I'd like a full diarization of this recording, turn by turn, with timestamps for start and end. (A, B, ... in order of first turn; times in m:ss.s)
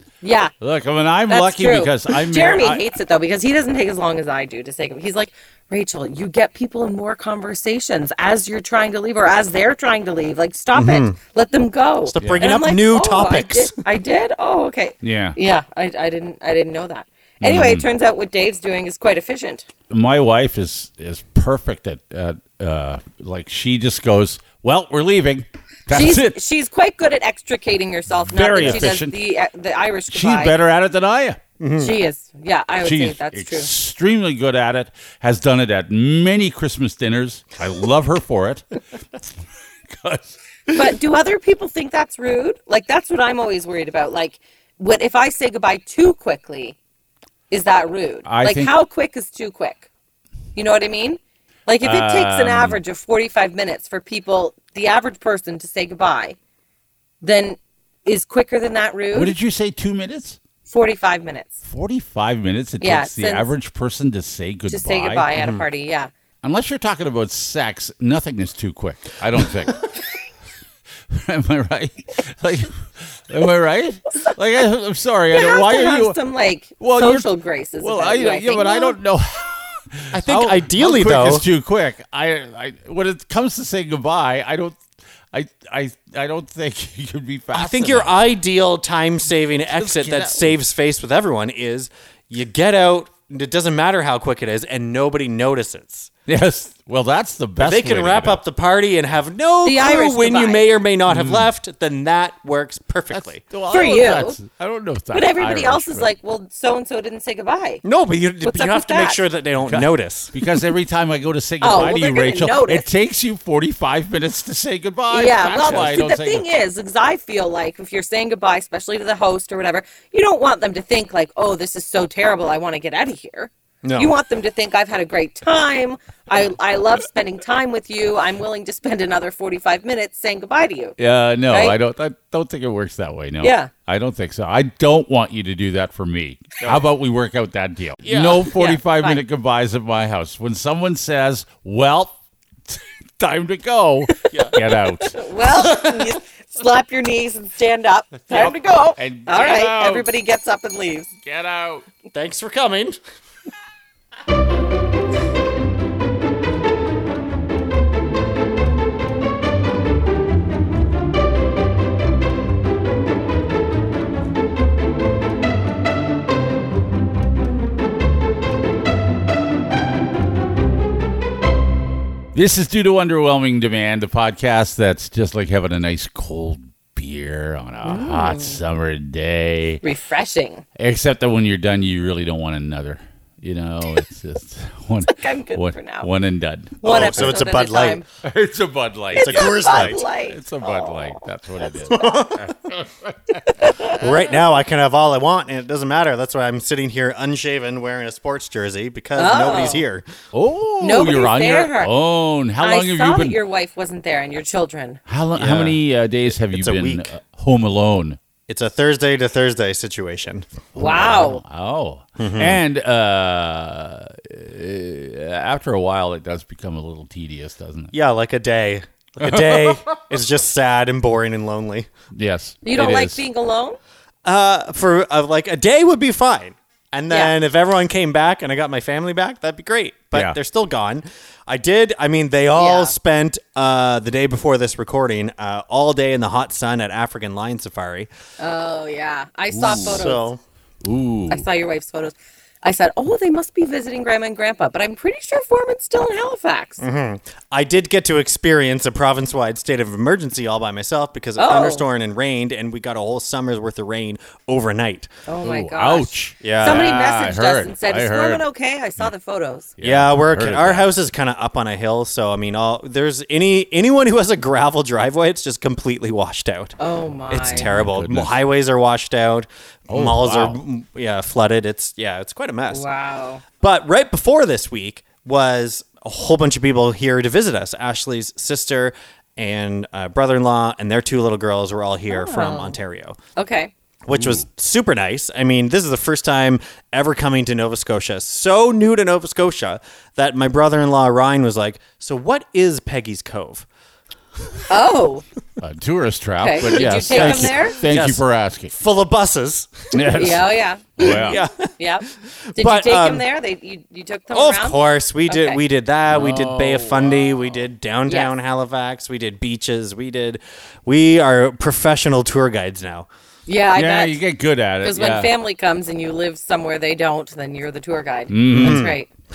0:00.2-0:00.6 A
0:00.6-0:02.8 B
0:01.3-0:19.7 A
0:10.7-0:11.2 C
0:12.1-0:13.8 C
0:12.2-0:12.5 B
0:15.0-0:15.4 B
0:17.4-0:17.9 B
0:19.9-0:26.4 B
0:25.9-0:30.6 A
0:28.2-0:29.2 B
0:28.6-0:28.9 C
0:30.1-0:31.4 B
0:31.6-0:31.9 C
0:31.8-0:33.7 A
0:32.8-0:39.2 B
0:39.9-0:40.4 B
0:40.7-0:46.8 A
0:47.5-0:49.9 A
0:48.2-0:48.7 B
0:50.6-0:56.4 A
0:51.8-0:52.8 B
0:57.2-0:59.4 A
0:59.1-1:00.4 B
1:00.7-1:01.6 A
1:01.7-1:05.3 B
1:02.8-1:03.5 A
1:04.7-1:06.1 A
1:05.4-1:05.6 C
1:06.4-1:09.9 B
1:11.1-1:16.2 B
1:15.3-1:19.0 A
1:16.8-1:17.3 B
1:17.8-1:28.2 B
1:20.2-1:21.5 C
1:27.5-1:36.1 C
1:29.7-1:30.5 B
1:36.3-1:38.4 B
1:37.6-1:43.4 C
1:39.6-1:40.8 A
1:41.1-1:41.5 B
1:43.1-1:46.1 B
1:43.7-1:44.4 A
1:45.1-1:47.8 A
1:47.8-1:50.3 C
1:48.4-1:49.2 A
1:49.6-1:56.5 B
1:51.6-1:52.9 A
1:55.1-2:11.0 A
2:03.8-2:04.1 C
2:11.0-2:25.2 B
2:11.5-2:11.8 A
2:13.4-2:13.7 A
2:18.0-2:18.5 C
2:18.5-2:19.2 A
2:24.2-2:31.1 A
2:24.3-2:24.6 C
2:28.3-2:30.1 B
2:31.2-2:31.9 B
2:32.1-2:33.0 C
2:52.3-2:59.8 B
2:57.8-2:58.6 A
2:59.8-3:00.6 A
3:00.8-3:07.4 B
3:05.1-3:06.1 A
3:06.8-3:08.0 C
3:06.8-3:08.1 A
3:08.2-3:13.8 B
3:09.1-3:12.2 A
3:09.2-3:10.0 C
3:11.9-3:12.6 C
3:13.6-3:14.1 A
3:13.9-3:20.1 C
3:19.2-3:19.8 A
3:20.3-3:23.4 B
3:20.8-3:21.9 A
3:22.6-3:25.0 A
3:25.1-3:28.2 B
3:25.4-3:25.8 C
3:26.3-3:27.1 C
3:28.5-3:30.5 C
3:30.8-3:37.9 B
3:30.8-3:31.4 A
3:32.2-3:32.6 C
3:37.9-3:41.9 C
3:39.2-3:39.9 B
3:42.1-3:43.2 B
3:42.6-3:43.8 A
3:44.2-3:58.1 C
3:52.6-3:53.0 A
3:58.4-4:00.3 A
3:59.5-4:00.1 B
3:59.6-4:00.4 C
4:00.8-4:01.5 B
4:01.3-4:06.8 A
4:06.8-4:15.1 C
4:11.4-4:11.8 A
4:15.3-4:19.7 A
4:15.4-4:18.4 B
4:16.4-4:16.9 C
4:19.8-4:20.9 B
4:19.8-4:26.8 C
4:26.8-4:27.7 A
4:27.3-4:32.9 C
4:27.4-4:28.4 B
4:29.9-4:30.6 B
4:32.7-4:33.4 A
4:33.6-4:43.2 C
4:42.1-4:42.8 A
4:43.4-4:43.7 A
4:44.0-4:53.7 C
4:44.1-4:44.4 B
4:54.7-4:55.2 A
4:55.6-4:58.7 B
4:56.4-4:57.8 A
4:57.1-5:00.2 C
4:59.9-5:01.4 B
5:00.1-5:05.6 A
5:01.0-5:01.7 C
5:02.5-5:03.2 C
5:04.3-5:13.1 C
5:06.1-5:07.6 B
5:13.5-5:14.2 A
5:13.8-5:15.3 B
5:14.8-5:19.1 A
5:18.3-5:18.9 B
5:18.5-5:19.0 C